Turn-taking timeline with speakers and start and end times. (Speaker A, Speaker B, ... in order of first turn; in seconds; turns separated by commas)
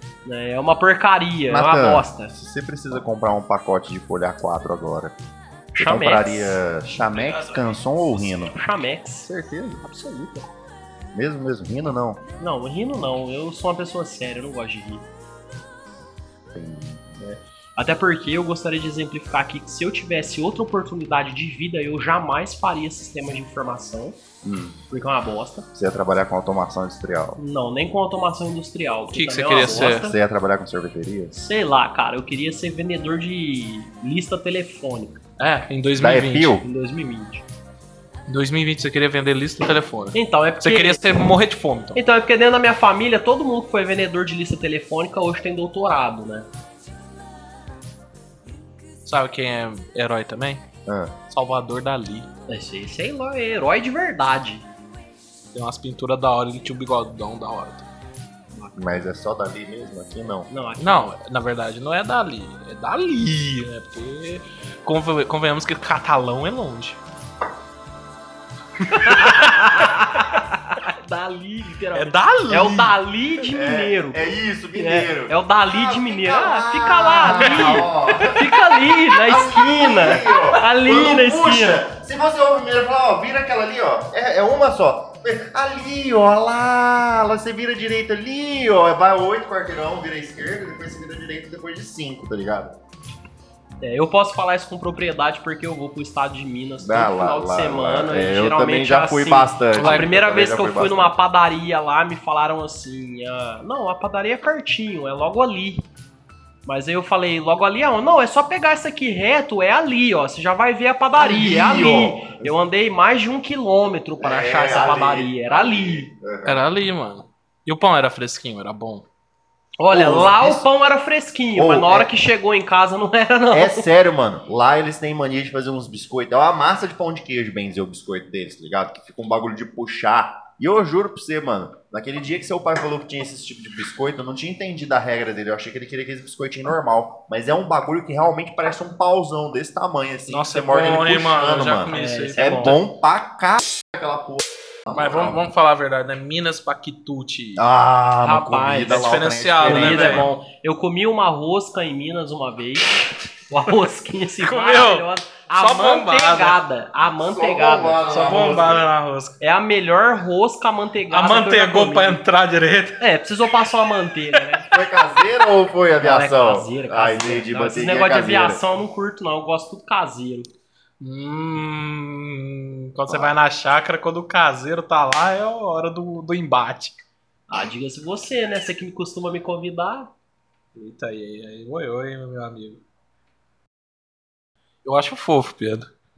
Speaker A: 0.2-2.3, Speaker B: 1.5-5.1, Speaker A: 5.7-6.6, Speaker B: 5.8-8.6, Speaker C: 7.0-8.5, Speaker A: 8.5-9.3, Speaker B: 9.2-9.8, Speaker A: 9.8-10.5, Speaker B: 11.1-12.2, Speaker A: 12.4-15.1, Speaker B: 16.5-17.2, Speaker A: 17.2-24.2, Speaker B: 24.4-24.8, Speaker A: 24.9-25.7, Speaker B: 25.7-27.4, Speaker A: 27.4-30.1, Speaker C: 29.1-30.1, Speaker B: 29.7-31.3, Speaker A: 31.3-35.2, Speaker C: 35.4-36.6, Speaker B: 36.0-36.6, Speaker A: 36.6-37.4, Speaker C: 38.3-42.0, Speaker A: 40.1-41.3, Speaker A: 41.9-46.5, Speaker C: 49.0-50.6, Speaker B: 50.9-51.1, Speaker C: 51.3-52.3, Speaker A: 52.5-54.7, Speaker C: 55.5-57.9, Speaker B: 58.8-60.5, Speaker A: 60.5-61.1, Speaker C: 60.8-67.0, Speaker A: 68.9-81.8, Speaker C: 68.9-69.9, Speaker C: 71.9-72.9, Speaker B: 73.5-92.8, Speaker C: 77.2-77.8, Speaker A: 93.8-105.8, Speaker B: 96.8-101.1, Speaker C: 99.7-100.1, Speaker A: 106.7-116.1, Speaker B: 111.2-112.5, Speaker B: 114.2-116.6, Speaker C: 116.4-119.0, Speaker A: 119.8-123.9, Speaker B: 119.9-120.6, Speaker B: 121.5-122.1, Speaker B: 123.5-145.4, Speaker C: 140.3-142.8, Speaker A: 141.9-142.8, Speaker C: 144.9-147.6, Speaker B: 147.6-150.3, Speaker A: 148.2-153.0, Speaker C: 148.9-150.3, Speaker A: 153.5-158.1, Speaker C: 154.4-156.6, Speaker B: 157.2-158.9, Speaker C: 158.1-159.4, Speaker A: 159.4-162.2, Speaker C: 161.1-163.0, Speaker A: 163.0-164.7, Speaker B: 164.7-168.6, Speaker A: 166.0-170.5, Speaker C: 171.0-177.0, Speaker B: 173.1-173.3, Speaker A: 177.5-180.1, Speaker C: 180.7-182.8, Speaker C: 184.8-185.9